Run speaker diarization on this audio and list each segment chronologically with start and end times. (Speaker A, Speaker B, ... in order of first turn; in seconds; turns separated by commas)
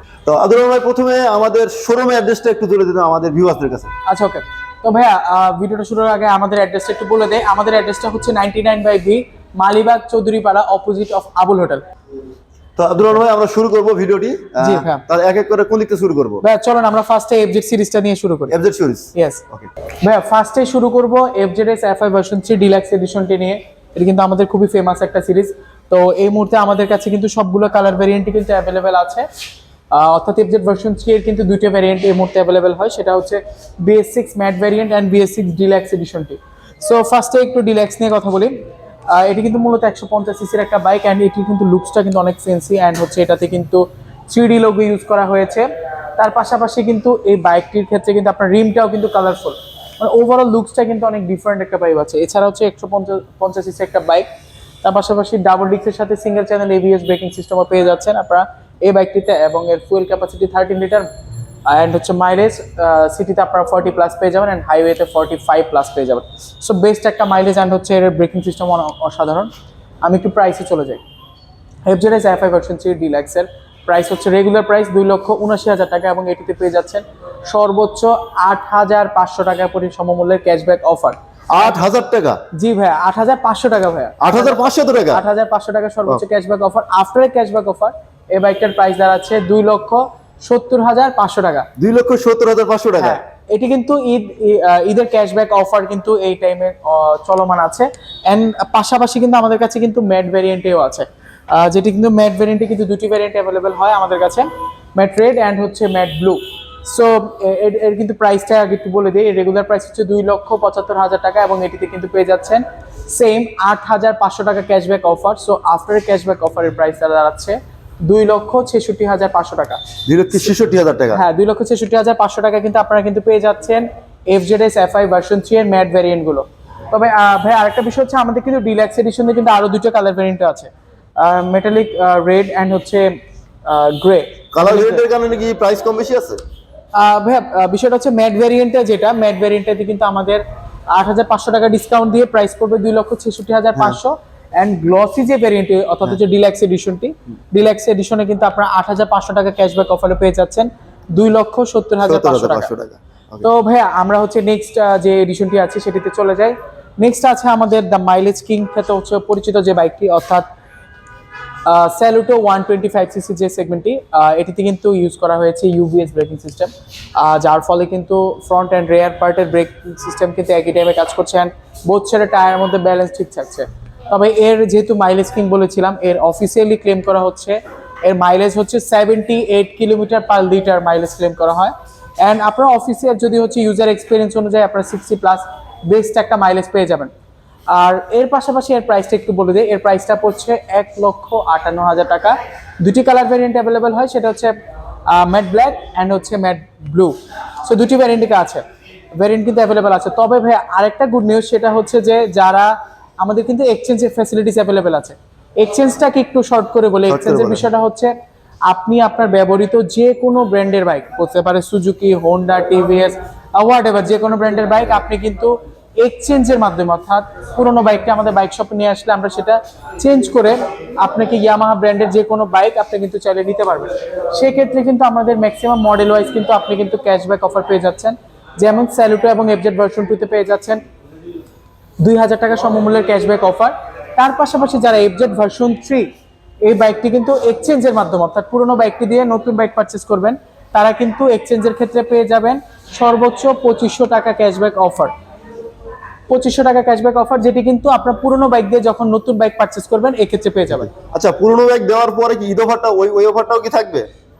Speaker A: 0.2-3.9, Speaker B: 4.1-11.8, Speaker A: 12.8-16.4, Speaker B: 14.6-15.1, Speaker B: 16.4-18.6, Speaker A: 18.5-19.7, Speaker B: 19.1-19.4, Speaker B: 20.0-29.2, Speaker B: 29.9-38.5, Speaker B: 39.1-45.6, Speaker B: 46.2-54.2, Speaker B: 54.8-61.1, Speaker B: 61.7-69.5, Speaker B: 70.0-71.0, Speaker B: 71.8-81.2, Speaker A: 81.5-82.4, Speaker B: 82.5-91.7, Speaker A: 84.2-85.2, Speaker A: 91.8-93.2, Speaker B: 93.0-119.8, Speaker A: 120.1-121.2, Speaker B: 121.1-133.1, Speaker B: 133.6-135.0, Speaker A: 134.5-136.4, Speaker B: 136.9-140.4, Speaker B: 140.9-152.7, Speaker A: 152.0-153.4, Speaker B: 153.4-160.5, Speaker B: 161.7-187.1, Speaker B: 187.7-194.5, Speaker B: 195.1-198.6, Speaker B: 199.2-208.1, Speaker A: 207.1-207.7, Speaker B: 208.7-230.8, Speaker B: 232.0-236.1, Speaker B: 236.6-245.1, Speaker B: 246.3-251.0, Speaker A: 251.0-254.1